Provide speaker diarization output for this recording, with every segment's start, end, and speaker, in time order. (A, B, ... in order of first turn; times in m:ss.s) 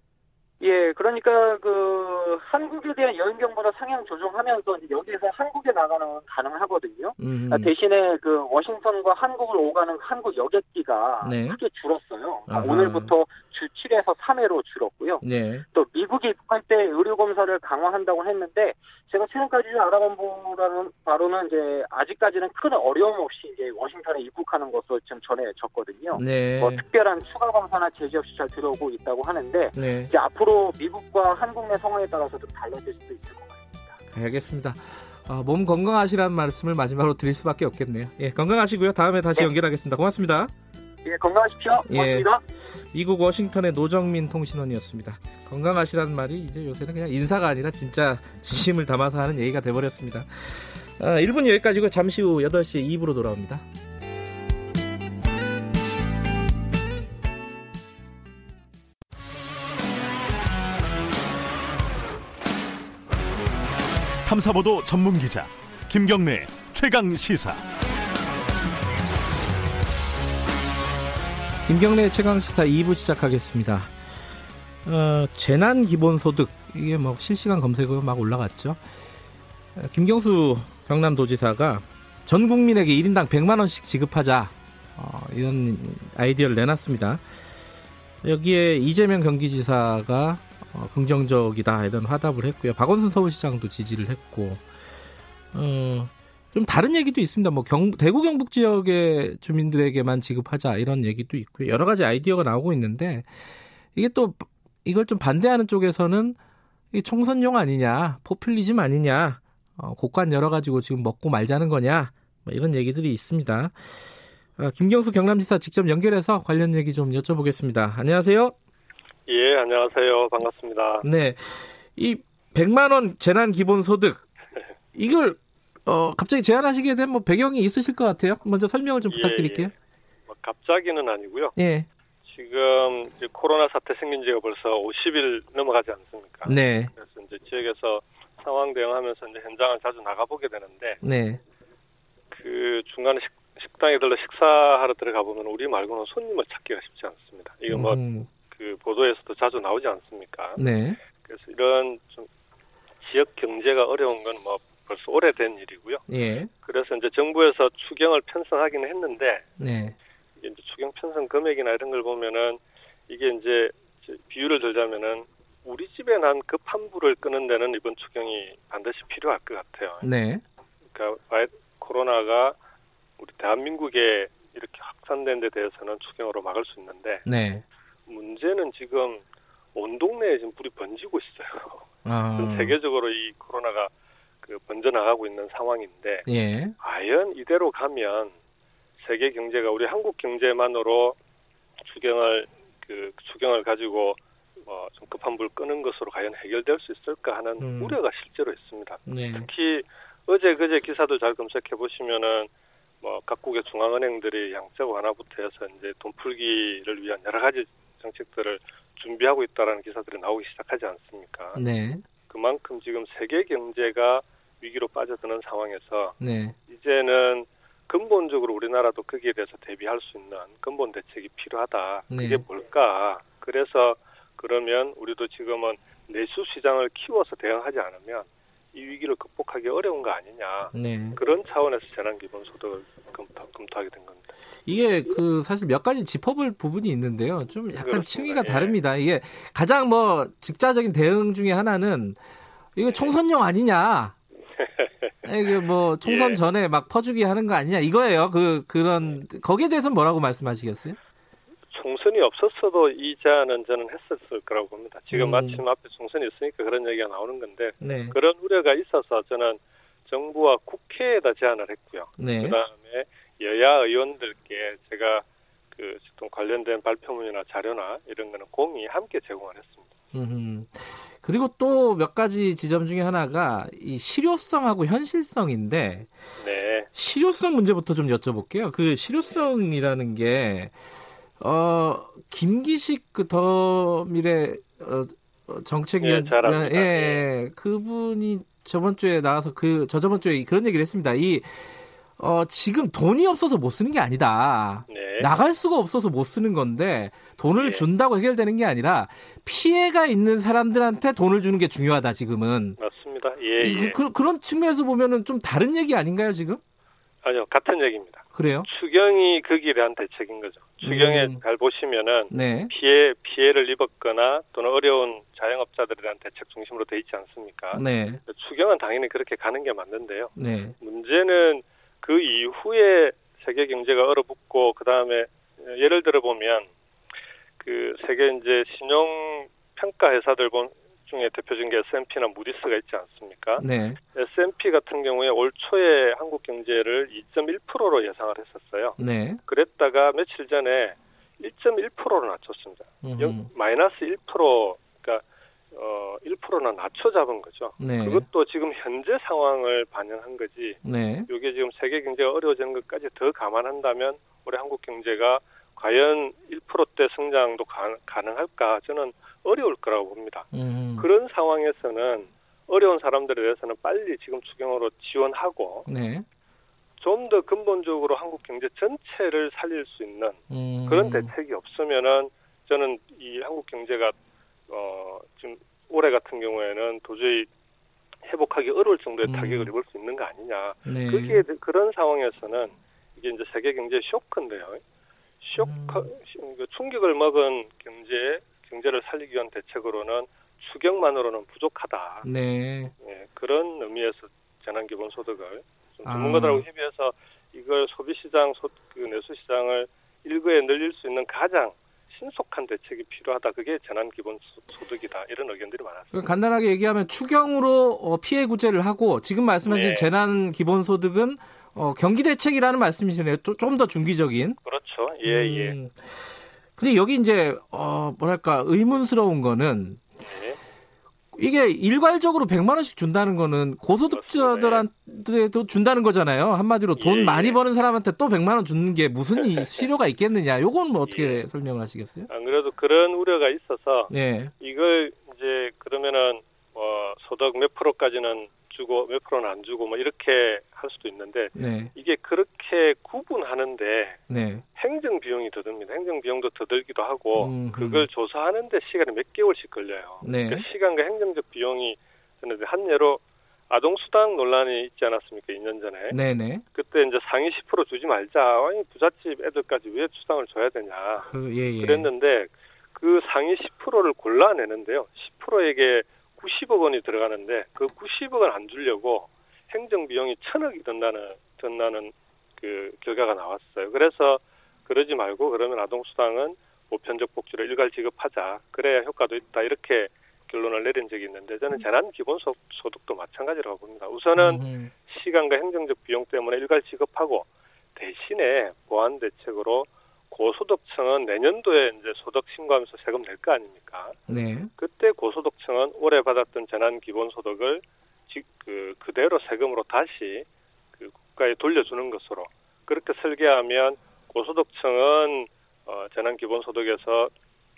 0:00.6-0:33.9 A
0:07.2-0:07.7 B
0:11.2-0:11.6 B
0:12.5-0:13.1 B
0:15.2-0:15.6 B
0:26.1-0:26.8 B
0:29.7-0:30.1 B
0:34.1-0:40.5 B
0:41.0-0:42.4 A
0:41.9-0:42.3 B
0:42.9-0:53.6 B
1:04.2-1:07.6 C
1:11.6-1:14.0 B
1:14.8-1:18.8 B
1:19.7-1:27.2 B
1:28.2-1:34.7 B
1:35.5-1:43.3 B
1:43.9-1:46.4 B
1:46.9-1:58.5 B
1:59.3-2:01.0 D
2:01.0-2:04.2 B
2:04.9-2:09.7 B
2:09.1-2:09.7 D
2:10.3-2:11.5 D
2:11.6-2:11.9 B
2:12.2-2:21.0 D
2:16.4-2:16.9 B
2:21.0-2:21.4 B
2:22.3-2:30.6 D
2:27.7-2:28.3 B
2:30.6-2:31.0 B
2:31.2-2:32.3 D
2:33.0-2:36.0 D
2:36.1-2:36.5 B
2:36.6-2:39.5 D
2:39.6-2:39.9 B
2:40.4-2:50.0 D
2:50.0-2:50.4 B
2:50.9-2:52.6 D
2:53.2-2:57.2 D
2:57.2-2:57.6 B
2:58.1-2:59.2 D
2:59.7-3:03.9 D
3:02.0-3:02.7 B
3:04.4-3:06.3 D
3:06.3-3:06.7 B
3:06.8-3:08.3 D
3:09.0-3:11.2 D
3:11.8-3:22.5 D
3:17.6-3:18.0 B
3:19.1-3:19.5 B
3:23.0-3:31.6 D
3:31.5-3:32.0 B
3:32.2-3:36.2 D
3:36.2-3:36.6 B
3:36.7-3:54.3 D
3:42.1-3:42.4 B
3:50.7-3:51.2 B
3:54.7-4:02.2 B
3:57.8-3:58.8 D
4:02.8-4:04.2 B
4:04.6-4:05.1 D
4:05.2-4:11.0 B
4:06.0-4:06.4 D
4:11.7-4:29.9 D
4:15.1-4:15.6 B
4:17.8-4:18.2 B
4:22.2-4:22.6 B
4:30.1-4:36.1 B
4:36.4-4:36.9 D
4:36.9-4:40.7 B
4:41.4-5:02.8 B
4:46.0-4:47.2 D
4:54.9-4:55.3 D
4:57.6-4:57.8 D
5:02.8-5:04.0 D
5:03.6-5:06.6 B
5:07.2-5:26.7 D
5:08.3-5:08.7 B
5:10.8-5:11.4 B
5:12.3-5:12.7 B
5:17.7-5:18.2 B
5:20.4-5:20.7 B
5:27.6-6:05.9 D
5:33.6-5:34.0 B
5:39.0-5:39.4 B
5:43.0-5:43.5 B
5:47.8-5:48.2 B
5:50.8-5:51.3 B
6:00.5-6:01.1 B
6:05.8-6:06.2 B
6:07.0-6:14.1 D
6:10.5-6:11.3 B
6:14.7-6:17.5 D
6:18.2-6:24.8 D
6:19.2-6:19.7 B
6:20.8-6:21.4 B
6:25.4-6:32.3 D
6:25.6-6:26.1 B
6:32.2-6:32.9 B
6:33.0-6:46.3 D
6:36.0-6:36.6 B
6:46.1-6:54.6 B
6:49.7-6:50.1 D
6:54.6-6:55.8 D
6:55.2-6:56.1 B
6:56.8-7:00.1 B
7:00.2-7:00.6 D
7:01.3-7:12.3 B
7:04.1-7:04.8 D
7:07.0-7:07.6 D
7:09.4-7:09.7 D
7:11.1-7:11.4 D
7:12.3-7:24.2 D
7:14.1-7:14.5 B
7:21.6-7:21.9 B
7:24.3-7:24.6 B
7:24.8-7:36.2 D
7:27.4-7:28.0 B
7:30.2-7:30.6 B
7:36.1-7:36.6 B
7:36.7-7:41.3 D
7:41.2-7:42.1 B
7:41.8-8:14.2 D
8:04.4-8:04.9 B
8:14.3-8:14.7 B
8:14.8-8:27.3 D